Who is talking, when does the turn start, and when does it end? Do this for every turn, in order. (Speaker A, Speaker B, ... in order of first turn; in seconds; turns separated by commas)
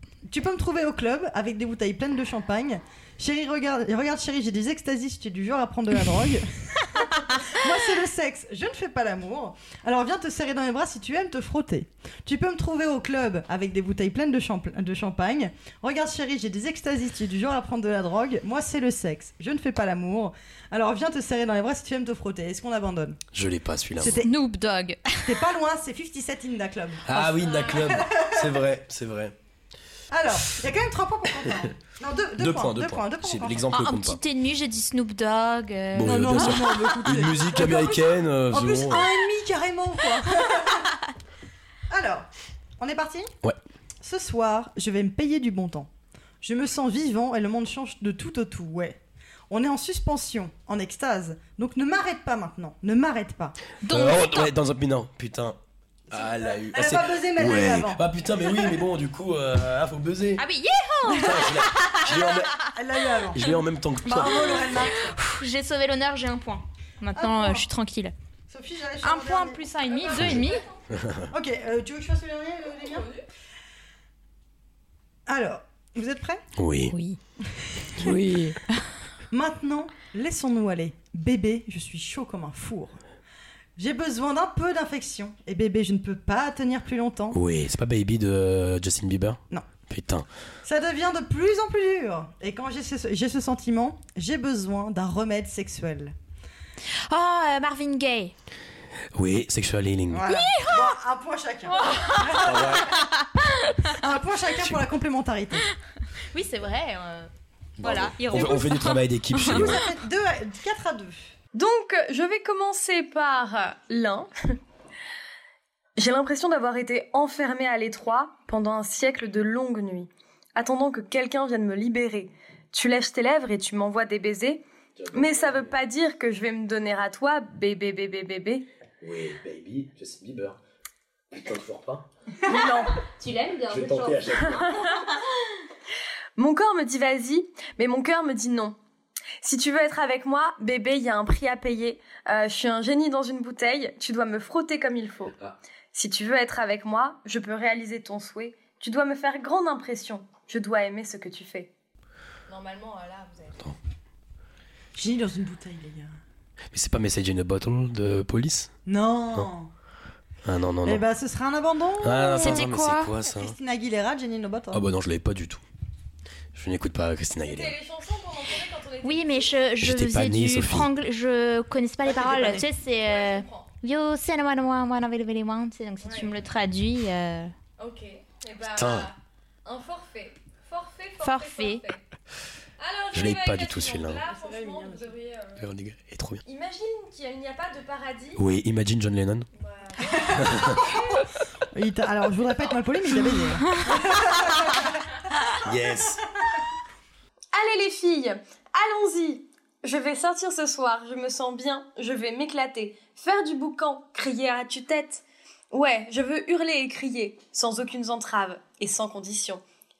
Speaker A: 0.3-23.2, Speaker B: 23.3-24.1, Speaker A: 23.9-24.4, Speaker C: 24.0-25.3, Speaker A: 25.2-28.6, Speaker B: 27.1-29.3, Speaker D: 27.2-28.0, Speaker A: 30.1-33.7, Speaker B: 32.4-34.2, Speaker C: 33.7-36.8, Speaker B: 35.9-39.1, Speaker A: 36.0-41.0, Speaker A: 41.9-43.3, Speaker A: 44.0-45.9, Speaker A: 46.4-49.0, Speaker A: 49.5-53.6, Speaker C: 53.8-54.5, Speaker B: 53.9-55.6, Speaker A: 56.1-58.0, Speaker B: 56.1-60.4, Speaker C: 60.4-62.7, Speaker A: 61.1-65.2, Speaker B: 61.2-62.5, Speaker B: 63.3-64.7, Speaker C: 64.2-68.1, Speaker A: 67.1-67.6, Speaker A: 68.5-69.6, Speaker C: 69.0-70.6, Speaker D: 69.9-70.8, Speaker B: 70.1-71.3, Speaker A: 71.3-73.1, Speaker D: 72.7-73.2, Speaker A: 75.3-76.4, Speaker B: 76.5-76.9, Speaker C: 76.9-77.2, Speaker A: 77.4-78.2, Speaker C: 78.0-78.8, Speaker A: 79.3-83.0, Speaker A: 83.8-87.4, Speaker B: 87.3-90.3, Speaker A: 90.6-96.1, Speaker C: 97.1-98.3, Speaker B: 99.1-100.2, Speaker A: 100.1-103.1, Speaker C: 100.3-101.0, Speaker C: 101.7-103.7, Speaker B: 102.4-102.9, Speaker A: 103.8-105.7, Speaker C: 106.3-109.7, Speaker B: 107.8-109.9, Speaker A: 109.5-111.3, Speaker D: 111.5-114.6, Speaker D: 116.0-124.6, Speaker B: 125.0-125.7, Speaker D: 125.1-128.6, Speaker B: 129.0-130.6, Speaker B: 131.3-132.1, Speaker D: 132.4-133.0, Speaker C: 133.2-134.2, Speaker B: 133.7-134.8, Speaker D: 134.3-135.1, Speaker D: 136.3-138.8, Speaker D: 139.4-145.3, Speaker D: 145.9-151.7, Speaker D: 152.5-153.6, Speaker A: 154.9-156.1, Speaker B: 156.7-158.7, Speaker A: 158.9-159.7, Speaker B: 160.4-161.0, Speaker A: 160.8-164.8, Speaker B: 162.0-163.5, Speaker C: 162.3-163.1, Speaker B: 164.7-165.6, Speaker B: 166.5-167.8, Speaker D: 167.4-169.6, Speaker C: 169.0-177.5, Speaker B: 169.8-170.9, Speaker A: 172.0-172.7, Speaker D: 173.0-173.7, Speaker D: 176.0-176.3, Speaker D: 177.8-182.0, Speaker B: 178.6-179.1, Speaker C: 181.2-181.8, Speaker D: 182.8-185.7, Speaker B: 183.1-184.2, Speaker A: 184.2-185.1, Speaker B: 185.6-186.4, Speaker D: 186.4-188.4, Speaker B: 188.4-189.5, Speaker D: 189.5-191.3, Speaker A: 190.0-191.0, Speaker B: 190.3-190.8, Speaker A: 191.7-195.1, Speaker B: 195.6-196.2, Speaker D: 197.5-209.6